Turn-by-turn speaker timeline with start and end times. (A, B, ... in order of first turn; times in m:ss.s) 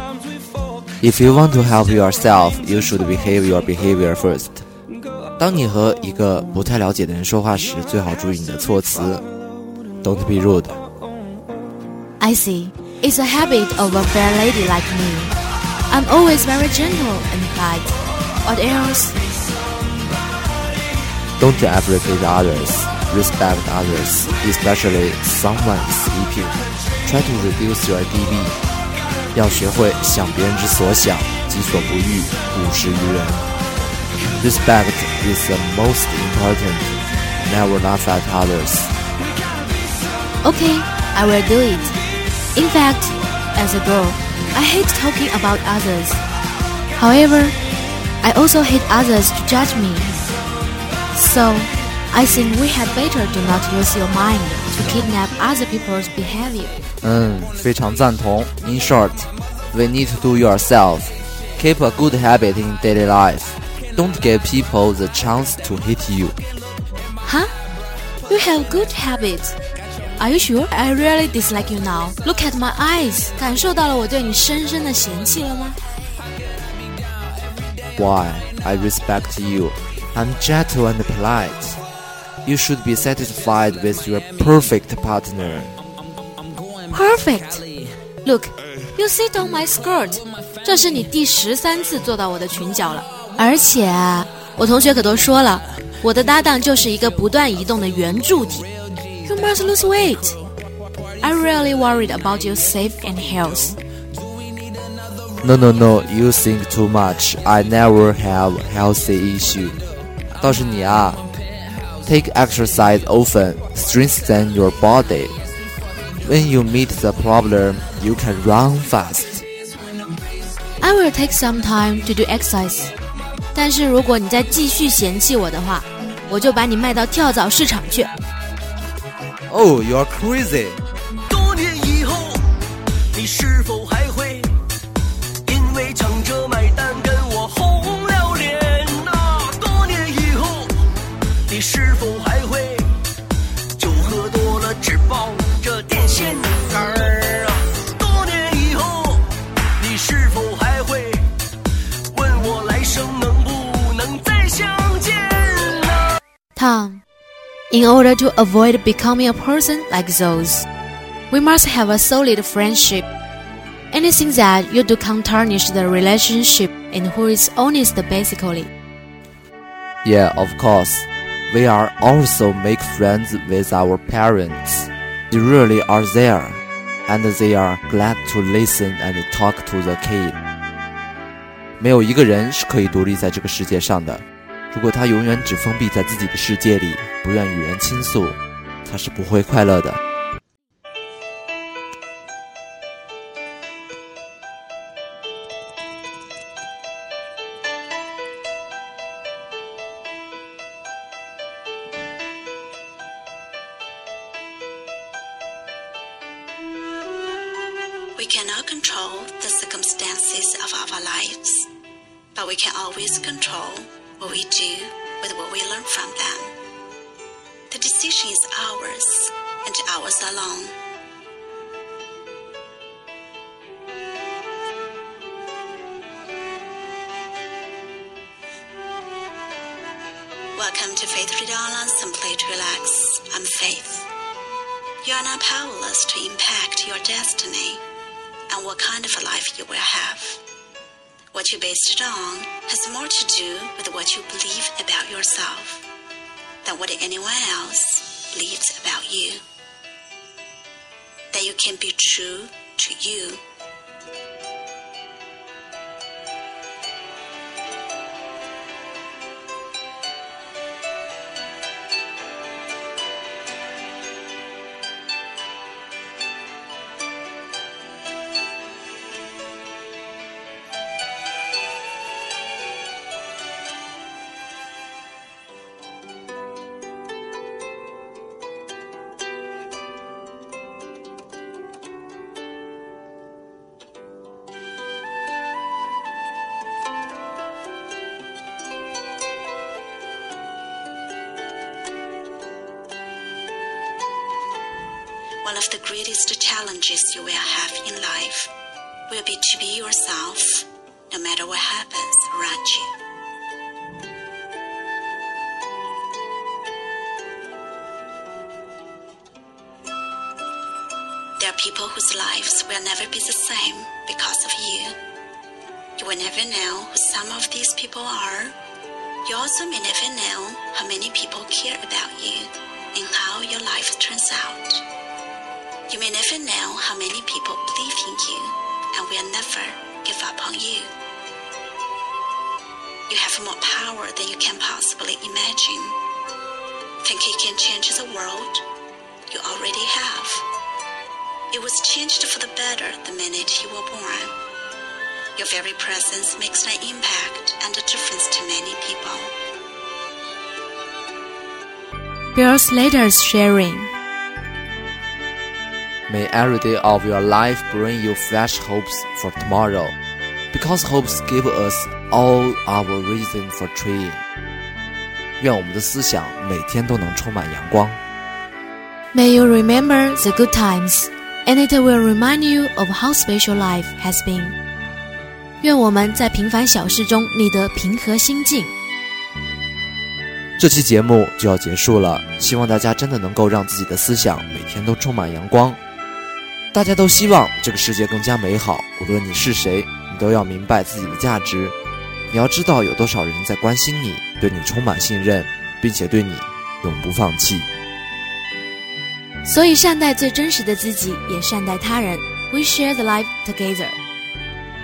0:01.0-0:04.6 A
0:05.4-0:09.2 A
0:10.0-0:10.8 A
0:12.2-0:15.4 B
0:15.9-0:19.2 B
0:21.4-0:28.6 A
0:29.3-0:33.5 A
0:34.4-0:36.9 A
0:37.4-0:38.9 A
0:40.4-0:42.0 B
0:42.6-0:46.2 B
0:47.0-0:47.6 B
0:48.2-0:50.2 B
0:51.1-0:56.9 B
0:57.0-1:06.4 A
1:07.2-1:07.5 B
1:08.3-1:09.6 B
1:10.2-1:15.8 B
1:18.0-1:21.8 A
1:22.4-1:25.8 A
1:26.9-1:27.7 B
1:28.2-1:38.7 B
1:39.2-1:40.5 B
1:41.2-1:43.8 B
1:45.4-1:49.8 A
1:50.4-1:51.2 A
1:52.0-1:55.4 A
1:56.2-1:59.4 A
2:00.8-2:02.9 B
2:03.5-2:08.1 B
2:09.5-2:10.8 A
2:11.3-2:12.4 C
2:13.1-2:14.5 C
2:15.5-2:20.7 C
2:21.5-2:22.9 C
2:23.8-2:29.2 C
2:29.8-2:31.3 C
2:32.1-2:35.7 C
2:36.6-2:37.0 B
2:37.7-2:40.7 B
2:41.3-2:43.1 B
2:43.9-2:48.7 B
2:50.0-3:00.4 A
3:01.8-3:10.0 A
3:28.2-3:31.7 D
3:32.4-3:36.6 D
3:37.7-3:40.8 D
3:50.6-3:54.1 D
3:55.0-3:57.8 D
3:58.5-4:00.4 D
4:01.3-4:05.8 D
4:06.6-4:09.4 D
4:11.3-4:13.4 D
4:55.4-4:58.5 D
4:59.1-5:02.9 D
5:11.4-5:15.0 D
5:16.0-5:18.6 D
5:19.2-5:24.9 D
5:25.9-5:30.9 D
5:33.1-5:36.0 D
5:37.0-5:38.7 D
5:39.3-5:40.5 D
5:41.5-5:44.4 D
5:45.4-5:49.3 D
5:52.3-5:53.9 B
5:56.1-6:00.0 A
6:00.5-6:04.2 A
6:05.4-6:08.0 A
6:09.1-6:14.6 B
6:15.6-6:18.7 B
6:20.6-6:25.8 A
6:26.7-6:31.8 A
6:32.3-6:37.7 A
6:39.4-6:44.0 B